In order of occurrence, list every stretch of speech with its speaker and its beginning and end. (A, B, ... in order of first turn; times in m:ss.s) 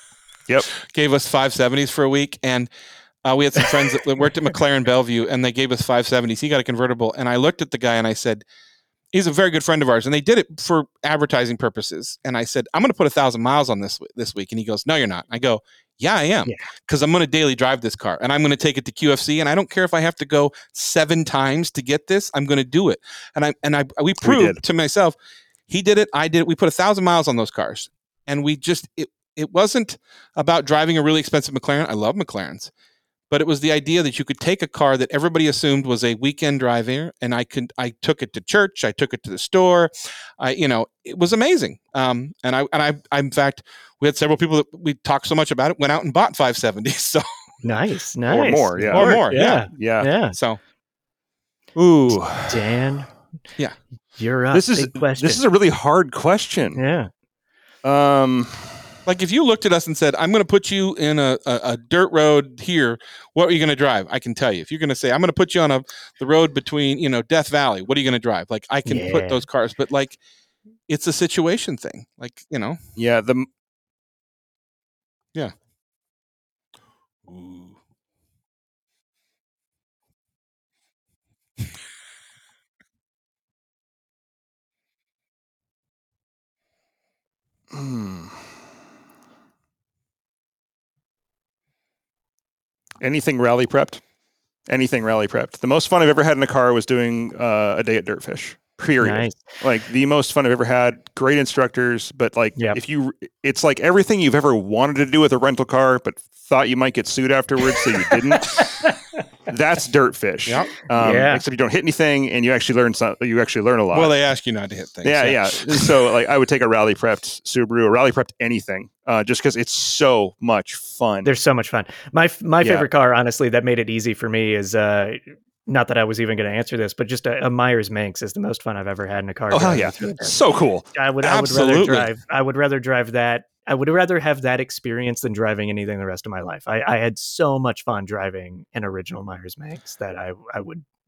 0:00.7-0:02.7 A
0:03.2-0:08.4 A
0:09.1-0:25.1 A
0:24.2-0:24.6 B
0:25.7-0:32.7 A
0:33.3-0:47.2 A
0:47.6-0:50.4 C
0:48.3-0:50.1 B
0:48.9-0:50.6 A
0:51.8-0:52.6 B
0:52.1-0:53.1 C
0:54.2-0:55.4 C
0:54.5-0:56.8 B
0:56.8-0:57.1 C
0:57.8-0:58.8 B
0:59.0-1:10.2 A
1:08.8-1:09.4 C
1:10.9-1:12.8 A
1:13.0-1:13.5 B
1:17.3-1:17.8 A
1:27.7-1:28.4 B
1:33.0-1:34.0 B
1:34.7-1:48.9 B
1:39.0-1:39.4 C
1:48.1-1:49.0 C
1:49.5-1:54.1 B
1:50.4-1:50.7 A
1:50.9-1:51.4 C
1:53.9-1:55.9 A
1:55.0-2:01.3 B
2:01.2-2:10.4 C
2:02.6-2:02.9 B
2:09.5-2:10.8 B
2:10.9-2:20.8 C
2:11.2-2:12.1 A